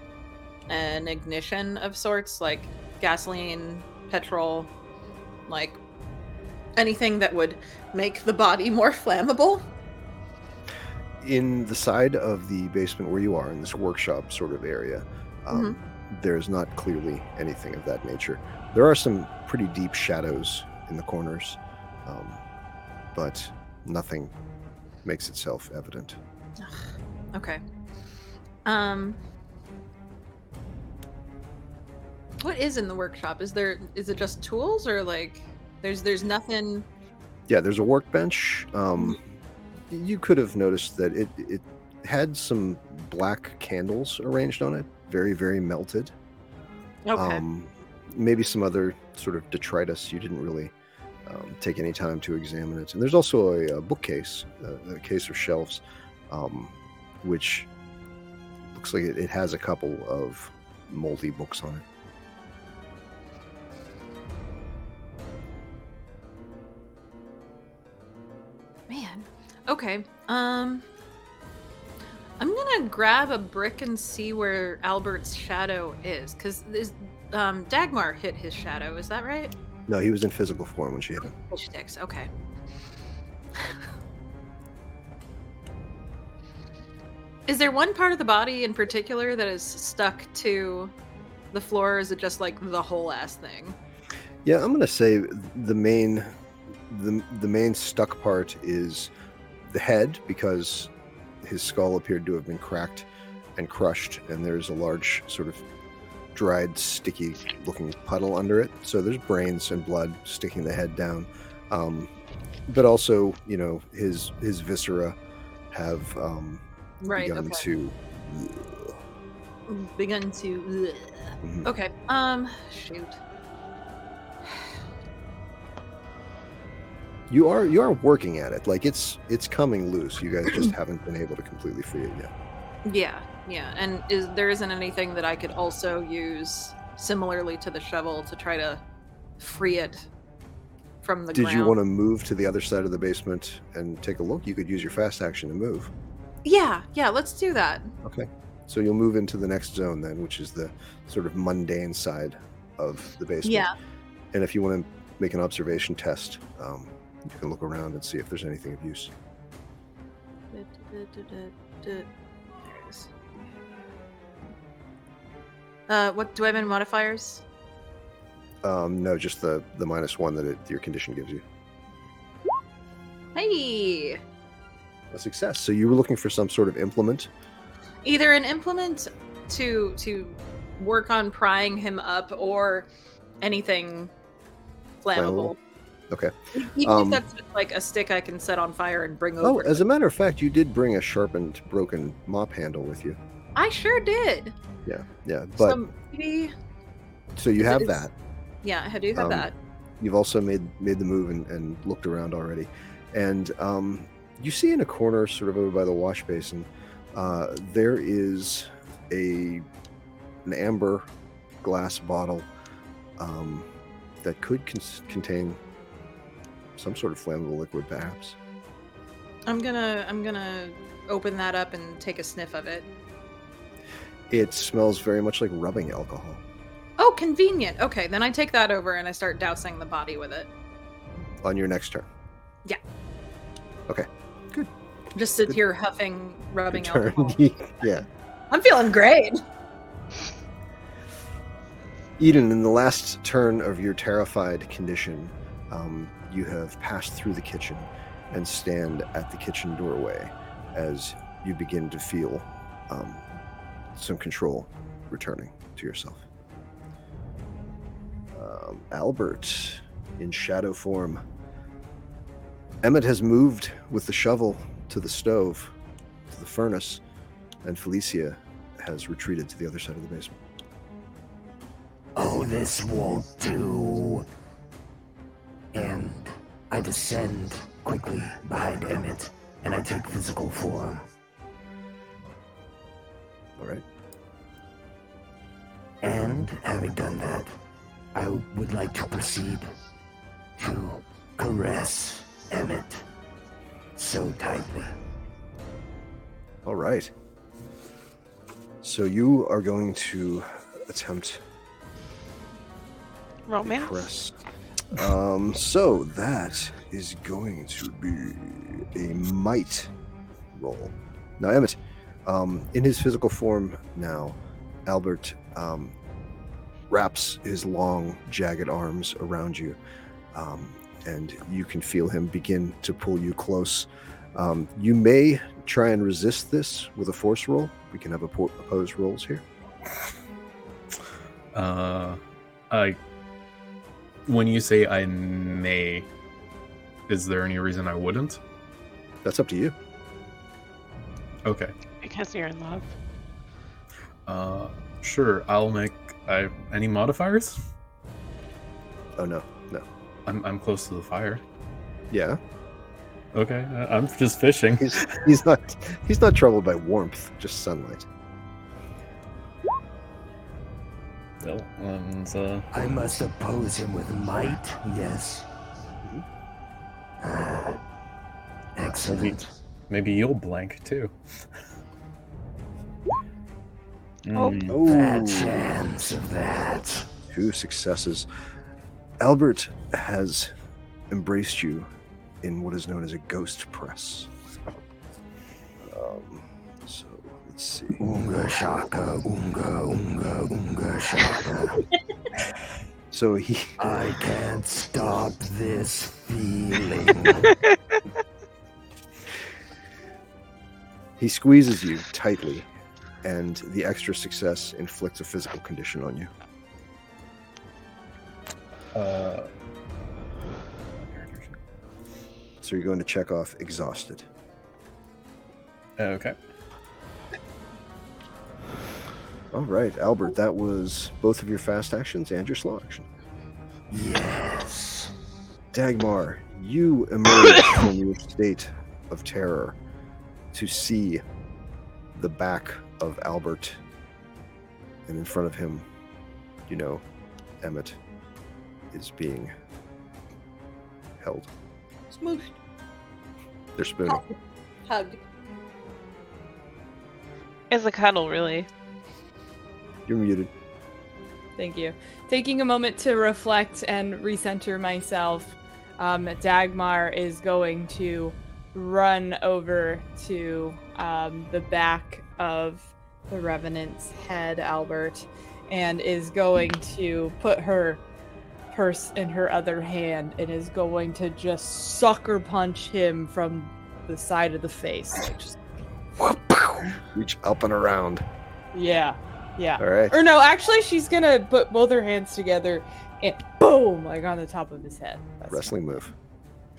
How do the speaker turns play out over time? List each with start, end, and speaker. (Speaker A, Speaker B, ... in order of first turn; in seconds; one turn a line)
Speaker A: 0.7-4.7
Speaker A: 5.5-5.8
Speaker A: 6.8-9.6
Speaker B: 11.2-22.4
Speaker A: 15.5-15.8
Speaker B: 23.1-24.3
Speaker B: 25.0-26.2
Speaker A: 26.6-27.6
Speaker A: 28.6-29.2
Speaker A: 32.4-36.9
Speaker B: 37.5-39.3
Speaker B: 39.9-46.1
Speaker A: 47.0-47.4
Speaker B: 47.1-50.7
Speaker B: 51.2-57.7
Speaker B: 58.7-61.8
Speaker A: 68.9-70.8
Speaker A: 72.4-79.5
Speaker B: 79.9-81.3
Speaker A: 81.4-82.3
Speaker A: 87.5-90.9
Speaker A: 91.5-93.8
Speaker B: 94.4-96.3
Speaker B: 96.9-99.1
Speaker B: 99.7-100.9
Speaker B: 101.4-103.0
Speaker B: 103.6-105.6
Speaker B: 106.3-112.1
Speaker B: 112.7-115.2
Speaker B: 115.7-119.0
Speaker A: 117.0-117.6
Speaker A: 119.7-123.2
Speaker B: 121.4-121.7
Speaker B: 127.3-132.3
Speaker A: 132.8-138.8
Speaker A: 139.4-140.0
Speaker A: 141.0-141.8
Speaker B: 141.3-145.9
Speaker A: 146.4-147.9
Speaker B: 148.0-153.7
Speaker A: 153.4-153.7
Speaker B: 154.3-159.1
Speaker A: 160.5-162.1
Speaker A: 162.7-163.1
Speaker A: 165.9-167.4
Speaker B: 168.6-171.4
Speaker A: 173.3-174.2
Speaker B: 175.1-177.3
Speaker A: 178.0-182.9
Speaker A: 183.4-184.1
Speaker A: 185.0-185.6
Speaker B: 185.1-185.5
Speaker B: 186.1-187.2
Speaker A: 186.5-189.8
Speaker B: 189.4-193.2
Speaker A: 193.6-194.5
Speaker B: 194.8-195.8
Speaker A: 195.6-196.5
Speaker B: 197.3-198.1
Speaker A: 197.6-198.0
Speaker A: 198.6-199.5
Speaker B: 199.1-209.6
Speaker B: 210.4-211.1
Speaker B: 211.6-212.5
Speaker B: 213.2-213.7
Speaker B: 214.2-215.6
Speaker B: 216.8-218.4
Speaker A: 219.5-222.9
Speaker B: 224.3-226.4
Speaker A: 227.0-230.5
Speaker B: 231.4-232.1
Speaker B: 233.9-234.7
Speaker A: 235.1-237.4
Speaker B: 236.7-238.1
Speaker A: 238.5-239.4
Speaker B: 242.2-253.3
Speaker B: 253.9-256.2
Speaker B: 258.3-261.2
Speaker B: 262.8-265.7
Speaker B: 266.3-267.0
Speaker B: 267.6-270.4
Speaker C: 272.1-274.2
Speaker C: 275.7-281.1
Speaker B: 283.6-283.8
Speaker C: 286.0-287.5
Speaker C: 288.1-289.7
Speaker C: 290.6-293.0
Speaker C: 293.9-294.9
Speaker B: 296.6-297.1
Speaker B: 298.8-301.4
Speaker D: 303.5-304.1
Speaker B: 303.6-304.3
Speaker B: 304.9-309.9
Speaker B: 310.5-315.9
Speaker B: 316.9-319.8
Speaker B: 320.3-329.4
Speaker E: 331.5-333.0
Speaker E: 334.2-336.1
Speaker E: 337.1-338.4
Speaker B: 339.2-339.8
Speaker E: 341.4-341.7
Speaker D: 342.0-342.9
Speaker E: 344.3-347.6
Speaker B: 349.2-349.9
Speaker E: 350.2-351.4
Speaker B: 352.1-352.4
Speaker E: 353.3-355.3
Speaker B: 354.8-358.1
Speaker E: 361.4-362.7
Speaker C: 362.7-365.5
Speaker C: 367.2-367.8
Speaker C: 368.8-369.5
Speaker E: 369.0-369.4
Speaker E: 369.9-371.1
Speaker E: 374.2-374.8
Speaker D: 374.3-374.7
Speaker B: 374.7-375.6
Speaker C: 374.8-377.1
Speaker B: 377.3-378.3
Speaker B: 379.2-380.5
Speaker B: 381.1-381.9
Speaker B: 382.4-384.3
Speaker B: 385.8-388.0
Speaker C: 388.0-391.8
Speaker B: 393.1-393.8
Speaker C: 393.8-397.5
Speaker B: 401.2-402.7
Speaker B: 403.2-406.3
Speaker E: 408.9-409.5
Speaker E: 410.9-411.6
Speaker B: 412.6-414.3
Speaker E: 416.0-416.3
Speaker B: 419.5-423.1
Speaker C: 423.9-425.1
Speaker B: 425.7-429.8
Speaker B: 430.5-431.2
Speaker B: 432.1-433.8
Speaker B: 435.1-435.9
Speaker B: 436.7-437.0
Speaker B: 437.6-438.0
Speaker B: 438.9-439.5
Speaker B: 441.2-441.5
Speaker A: 442.1-442.5
Speaker B: 443.8-444.2
Speaker A: 444.9-445.2
Speaker D: 447.7-448.7
Speaker B: 450.1-450.5
Speaker F: 451.6-468.0
Speaker F: 468.7-475.6
Speaker B: 476.2-478.3
Speaker F: 478.7-485.7
Speaker B: 479.8-480.2
Speaker B: 485.5-486.1